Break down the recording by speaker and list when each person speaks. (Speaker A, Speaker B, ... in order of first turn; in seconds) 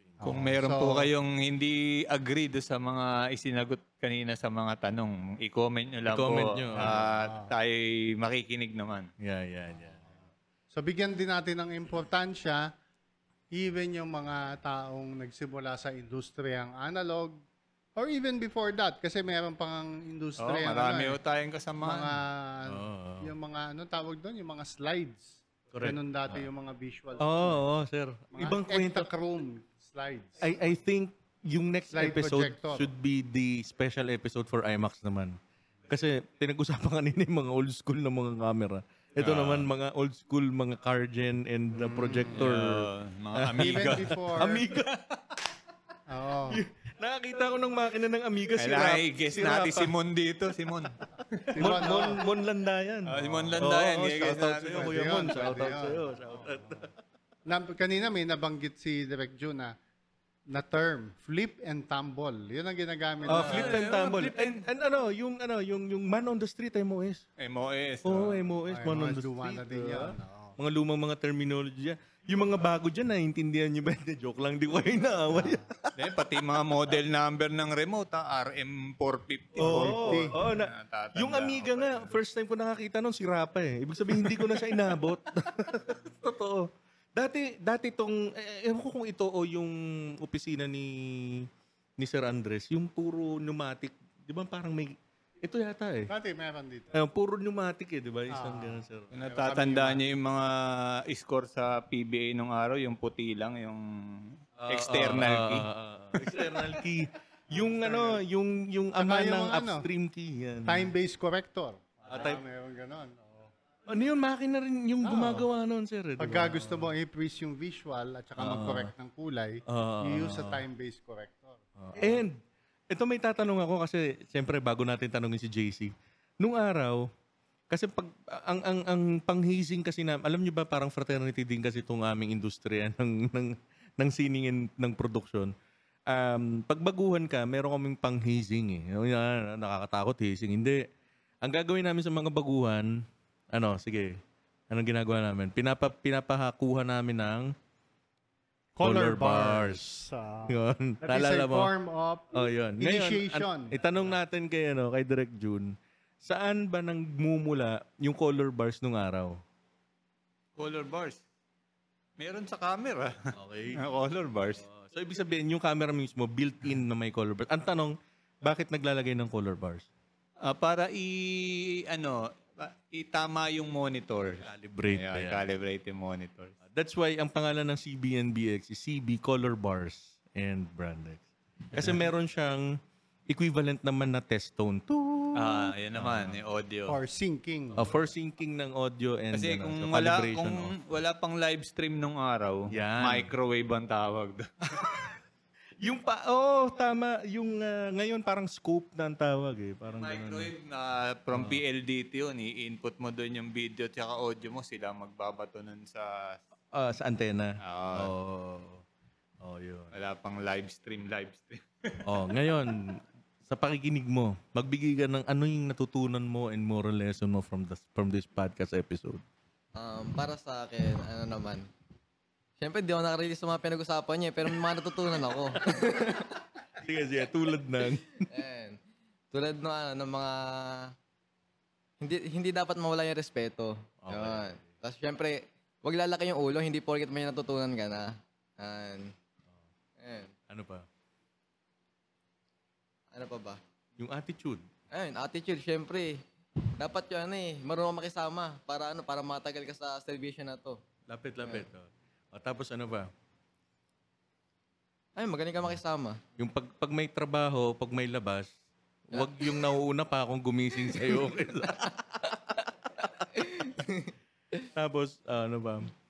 Speaker A: 0.2-1.1, 6.8-7.5, 10.7-12.7, 13.5-17.4, 18.0-21.2, 21.8-27.6, 28.3-30.6, 31.9-32.9, 41.8-42.5, 43.6-44.6, 46.1-46.6, 51.5-52.2, 53.4-53.7, 54.2-56.9, 57.5-59.8, 60.5-64.0, 68.7-70.6, 75.3-75.7, 79.6-80.4, 96.1-97.0, 98.3-100.0, 107.6-108.2, 109.0-109.9, 110.7-113.5, 115.0-115.5, 116.2-122.2, 148.8-153.7, 186.9-187.9
Speaker B: 0.2-9.1, 20.4-22.2, 39.2-39.7, 42.4-45.1, 48.6-51.6, 53.1-55.3, 63.3-64.6, 67.4-68.4, 76.0-82.1, 84.2-84.8, 99.1-105.7, 160.6-161.2, 162.2-164.7, 170.4-176.6, 181.7-182.1, 185.4-187.0, 189.3-194.9, 199.9-206.4, 207.6-208.1, 209.9-212.0
Speaker C: 6.1-7.0, 9.2-10.1, 22.7-23.3, 25.7-26.4, 27.2-29.1, 30.4-35.4, 35.9-44.9, 46.5-49.9, 51.6-56.9, 63.3-67.2, 68.0-75.9, 79.6-91.5, 92.0-96.1, 96.9-99.1, 104.6-110.9, 112.1-112.4, 113.9-116.9, 118.4-118.9, 119.7-120.6, 121.8-127.1, 127.7-135.5, 136.1-140.9, 141.4-147.5, 148.8-151.7, 152.3-159.4, 163.3-163.8, 164.6-169.9, 174.5-175.4, 176.7-182.8, 183.3-186.4, 187.8-190.8, 192.7-193.3, 195.8-200.5, 201.3-201.6, 206.7-208.8, 209.4-209.9, 212.0-219.2, 226.8-228.3, 234.0-234.6, 240.5-240.9, 244.0-244.7, 251.1-253.1, 256.4-258.5, 259.1-262.3, 264.7-265.9
Speaker D: 219.8-221.7, 222.6-226.4, 228.2-228.8, 229.3-230.9, 232.0-239.1, 240.0-240.3, 243.1-243.6, 244.9-246.2, 246.8-250.8, 255.2-256.2, 259.1-259.6, 260.9-261.3, 263.2-264.1